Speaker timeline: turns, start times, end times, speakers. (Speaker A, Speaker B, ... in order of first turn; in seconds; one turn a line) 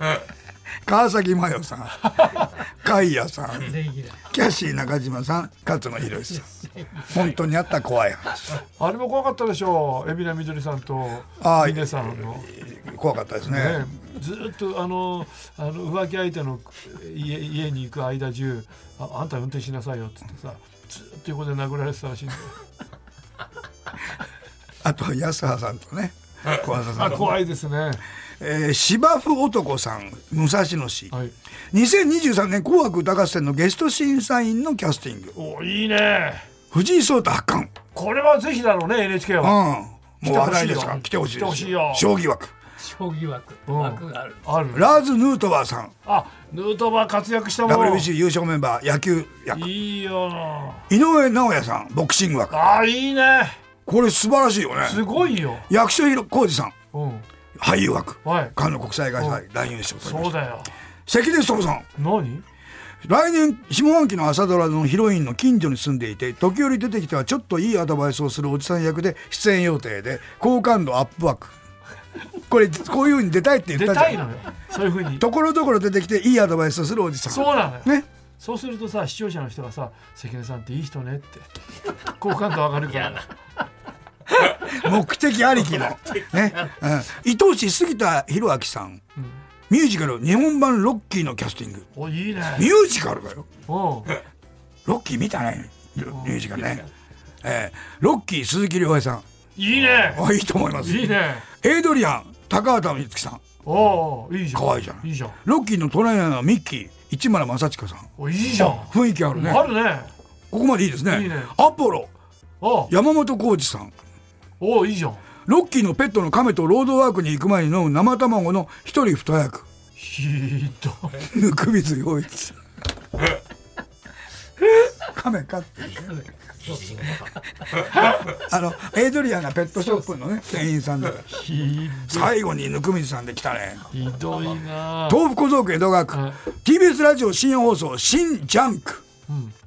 Speaker A: 0.8-8.6
Speaker B: 2.2-2.5
Speaker C: 3.7-4.2
Speaker B: 8.8-12.5
Speaker A: 11.4-13.9
Speaker B: 13.5-22.6
Speaker A: 24.8-27.4
Speaker B: 26.9-28.0
Speaker A: 28.4-31.1
Speaker A: 31.7-35.4
Speaker B: 35.4-36.5
Speaker A: 36.7-37.7
Speaker B: 37.9-39.6
Speaker A: 39.4-42.5
Speaker B: 40.2-42.1
Speaker C: 42.8-44.4
Speaker B: 43.7-44.9
Speaker A: 44.7-46.0
Speaker B: 46.1-48.1
Speaker A: 47.6-49.7
Speaker B: 49.5-50.9
Speaker A: 50.9-52.6
Speaker B: 52.5-53.6
Speaker A: 53.9-56.7
Speaker B: 54.8-55.7
Speaker B: 56.9-57.3
Speaker A: 57.6-60.4
Speaker B: 58.2-58.5
Speaker B: 60.0-60.7
Speaker A: 61.1-61.9
Speaker B: 62.0-62.4
Speaker A: 63.0-71.5
Speaker A: 72.5-74.2
Speaker B: 73.7-75.2
Speaker A: 75.2-78.1
Speaker B: 77.3-81.5
Speaker B: 82.0-83.3
Speaker A: 84.5-89.0
Speaker A: 89.7-91.9
Speaker B: 92.0-92.7
Speaker A: 92.5-93.5
Speaker B: 93.7-94.2
Speaker A: 94.9-96.9
Speaker A: 97.4-99.2
Speaker B: 99.6-100.3
Speaker A: 99.9-103.4
Speaker B: 100.8-101.5
Speaker B: 103.7-105.4
Speaker A: 104.5-109.7
Speaker B: 108.2-110.1
Speaker A: 110.5-112.1
Speaker B: 111.1-111.5
Speaker B: 112.6-112.9
Speaker A: 112.9-113.9
Speaker B: 114.6-115.2
Speaker A: 115.5-119.7
Speaker B: 120.0-121.2
Speaker A: 121.2-122.6
Speaker A: 124.6-126.2
Speaker C: 126.0-127.3
Speaker A: 127.8-131.3
Speaker B: 131.3-132.3
Speaker A: 132.1-133.9
Speaker B: 133.9-135.2
Speaker A: 135.1-139.1
Speaker B: 136.1-136.4
Speaker B: 139.3-139.5